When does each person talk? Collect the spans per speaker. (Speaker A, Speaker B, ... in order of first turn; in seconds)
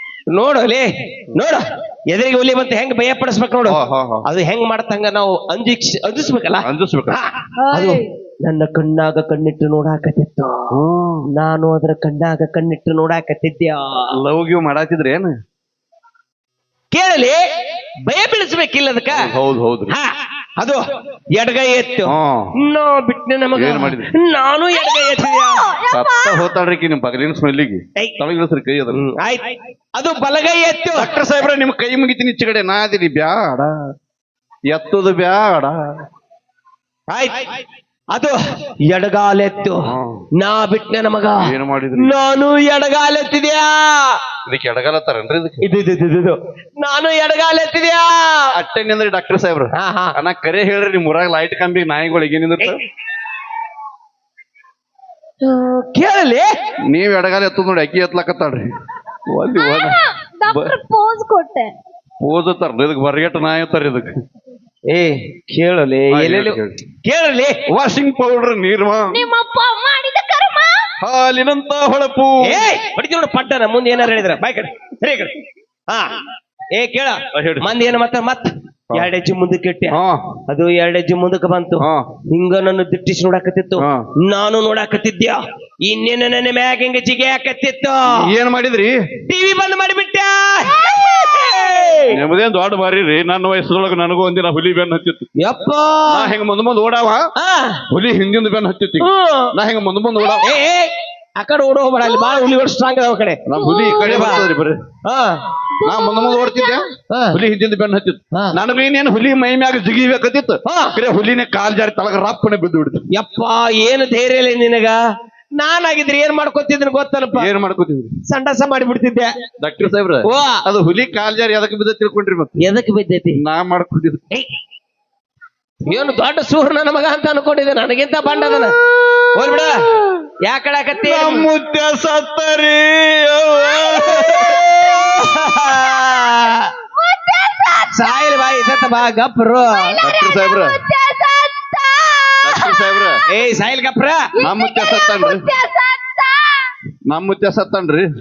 Speaker A: 0.3-10.7, 11.3-14.1, 16.9-17.4, 18.1-19.3, 19.9-20.8, 21.3-25.7, 28.9-31.1, 37.1-37.5, 38.1-39.9, 40.4-44.2, 45.6-48.5, 49.7-50.2, 55.4-56.5, 64.9-67.6, 72.4-75.3, 75.9-76.2, 76.8-80.0, 80.5-88.3, 89.3-92.2, 95.4-96.3, 97.4-97.8, 99.0-99.5, 100.4-103.4, 104.0-104.5, 105.0-105.4, 107.1-107.4, 110.7-111.0, 113.1-115.0, 115.6-117.5, 118.3-119.3, 120.2-120.6, 122.6-123.4, 125.8-128.8, 129.3-129.9, 130.4-131.5, 133.8-136.7, 137.9-140.0, 143.3-144.2
Speaker B: 3.6-4.2, 6.6-7.2, 10.7-11.3, 14.2-15.3, 19.1-19.9, 22.1-22.5, 23.5-24.1, 25.9-29.0, 30.9-33.7, 34.7-35.8, 39.9-40.2, 41.4-42.1, 44.5-45.6, 48.5-52.8, 56.9-58.6, 59.3-60.7, 62.2-64.1, 66.1-66.8, 67.7-69.3, 71.0-72.7, 77.3-77.7, 79.9-80.3, 81.8-82.0, 88.1-89.0, 92.1-95.3, 96.1-97.2, 97.9-100.5, 103.5-104.8, 105.8-113.0, 117.3-118.1, 119.6-122.5, 123.4-124.2, 130.9-134.7, 140.0-140.8, 142.4-143.2, 144.4-145.5, 147.1-148.1
Speaker C: 7.6-8.1, 24.7-26.5, 59.5-61.7, 69.1-70.8, 90.8-91.8, 102.1-102.4, 103.5-104.2, 105.8-106.9, 128.4-129.3, 129.9-130.2, 133.6-136.3, 136.9-138.8, 139.7-143.3, 144.3-146.7